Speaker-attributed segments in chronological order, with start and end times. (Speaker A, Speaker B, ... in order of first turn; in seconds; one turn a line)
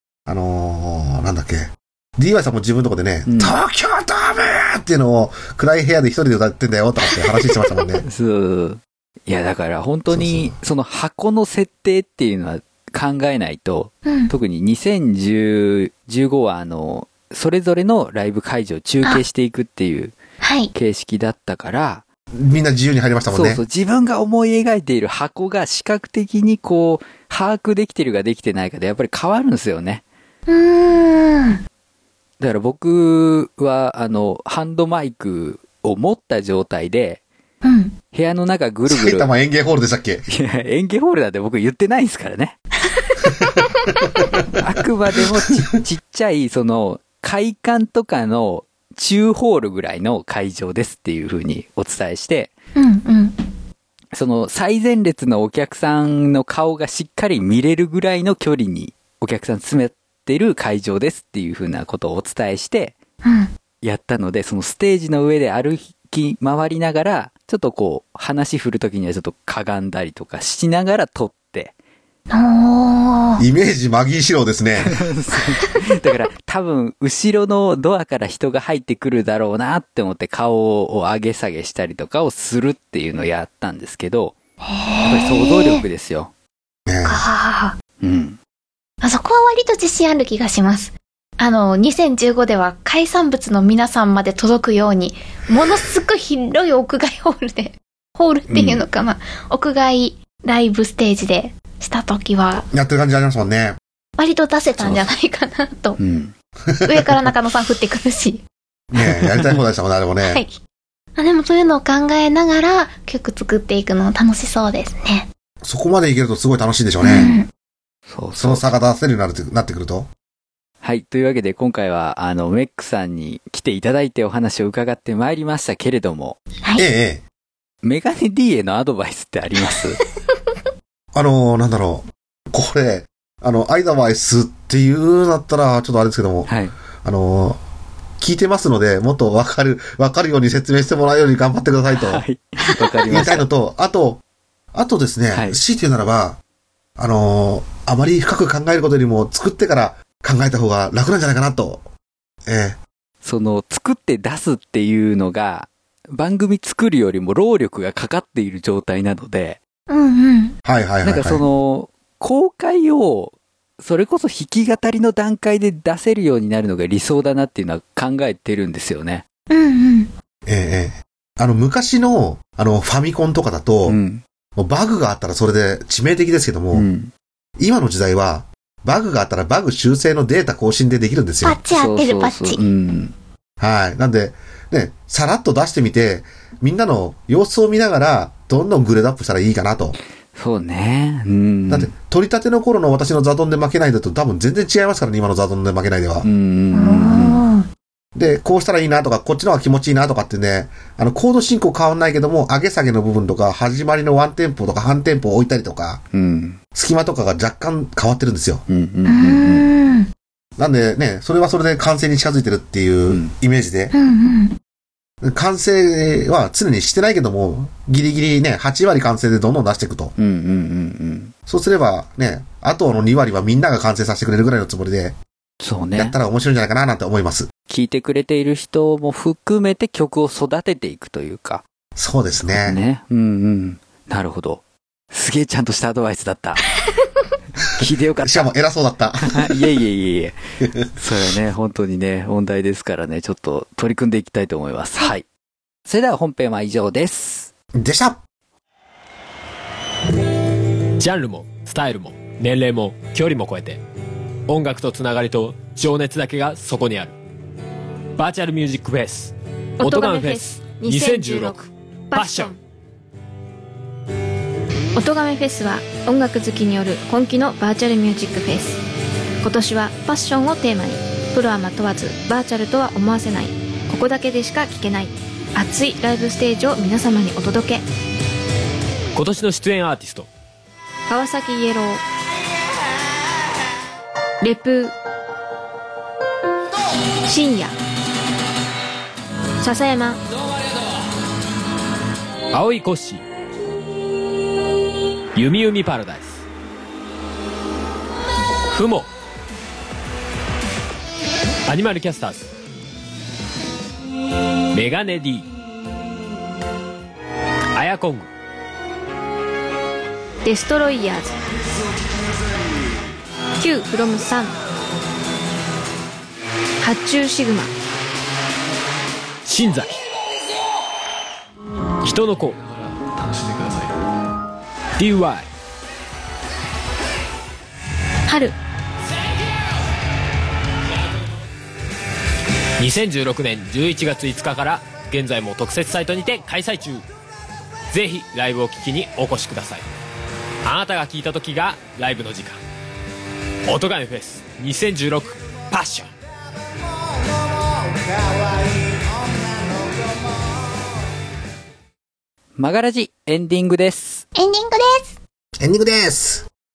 Speaker A: 0.3-8.0
Speaker B: 3.2-3.5
Speaker B: 8.0-20.1
Speaker A: 10.1-10.5
Speaker C: 14.1-14.3
Speaker C: 20.4-20.7
Speaker B: 20.7-22.0
Speaker A: 22.4-23.6
Speaker B: 23.3-30.0
Speaker C: 30.5-31.6
Speaker B: 32.4-37.2
Speaker C: 37.6-37.9
Speaker B: 38.1-39.3
Speaker A: 38.9-40.2
Speaker B: 40.3-42.6
Speaker A: 43.6-44.2
Speaker B: 44.6-52.5
Speaker C: 52.8-53.4
Speaker B: 54.1-63.0
Speaker C: 63.2-63.5
Speaker B: 63.8-71.7
Speaker C: 72.3-73.4
Speaker A: 73.4-75.0
Speaker B: 74.8-84.4
Speaker C: 84.6-85.8
Speaker B: 85.0-86.3
Speaker A: 86.9-87.2
Speaker C: 87.0-87.7
Speaker B: 88.0-88.4
Speaker C: 89.0-102.7
Speaker B: 98.5-98.8
Speaker A: 102.7-103.8
Speaker C: 104.2-106.0
Speaker B: 104.8-105.0
Speaker B: 106.0-106.3
Speaker A: 106.7-107.1
Speaker C: 106.8-108.4
Speaker A: 108.9-110.4
Speaker B: 109.0-109.5
Speaker C: 110.2-110.6
Speaker C: 111.2-115.3
Speaker A: 115.6-117.3
Speaker C: 117.0-117.5
Speaker B: 118.1-118.7
Speaker A: 118.4-120.1
Speaker B: 120.8-126.4
Speaker A: 126.8-127.2
Speaker B: 127.8-130.0
Speaker A: 131.1-136.5
Speaker B: 136.4-136.7
Speaker A: 137.0-137.6
Speaker A: 138.2-142.2
Speaker B: 141.9-143.5
Speaker A: 143.1-144.2
Speaker A: 144.7-146.4
Speaker B: 145.3-145.6
Speaker A: 147.0-151.9
Speaker A: 152.4-152.8
Speaker B: 153.2-159.6
Speaker C: 159.9-160.6
Speaker A: 160.6-161.4
Speaker B: 161.0-169.2
Speaker C: 169.5-170.1
Speaker A: 170.4-174.0
Speaker B: 173.8-174.2
Speaker A: 174.6-176.9
Speaker B: 176.7-177.1
Speaker A: 177.6-181.6
Speaker C: 181.4-182.6
Speaker B: 181.7-183.1
Speaker A: 183.6-190.0
Speaker B: 190.3-191.9
Speaker A: 191.7-196.3
Speaker B: 196.2-197.4
Speaker C: 196.7-197.7
Speaker A: 198.2-206.0
Speaker B: 206.1-206.6
Speaker A: 206.7-208.6
Speaker B: 208.7-209.7
Speaker C: 209.1-210.1
Speaker A: 210.6-213.9
Speaker B: 213.1-213.3
Speaker C: 213.9-214.6
Speaker A: 215.2-220.1
Speaker B: 220.2-221.3
Speaker A: 221.5-225.2
Speaker B: 225.6-226.2
Speaker A: 225.9-227.5
Speaker B: 227.7-231.6
Speaker A: 231.9-232.8
Speaker B: 232.3-236.6
Speaker B: 237.7-238.5
Speaker A: 238.2-239.6
Speaker B: 239.3-240.4
Speaker B: 240.9-245.2
Speaker B: 245.8-247.5
Speaker A: 247.7-248.2
Speaker D: 251.0-253.8
Speaker D: 254.5-257.1
Speaker D: 258.2-261.6
Speaker E: 259.8-262.6
Speaker D: 262.1-262.5
Speaker E: 264.9-268.8
Speaker E: 269.4-277.9
Speaker D: 279.1-280.3
Speaker E: 281.1-282.0
Speaker E: 284.4-284.9
Speaker E: 287.2-287.8
Speaker E: 289.6-290.2
Speaker D: 292.5-293.2
Speaker D: 295.4-296.4
Speaker D: 298.7-299.1
Speaker D: 301.6-302.5
Speaker D: 304.7-305.5
Speaker D: 307.7-308.3
Speaker E: 310.4-311.4
Speaker E: 313.6-314.5
Speaker E: 316.8-317.7
Speaker D: 319.4-320.0
Speaker D: 322.0-322.6
Speaker D: 325.0-325.5
Speaker E: 328.3-328.6
Speaker D: 332.8-337.0
Speaker D: 337.9-339.9
Speaker D: 340.6-342.6
Speaker D: 343.7-346.1
Speaker B: 352.6-354.3
Speaker C: 354.3-355.2
Speaker A: 355.6-356.4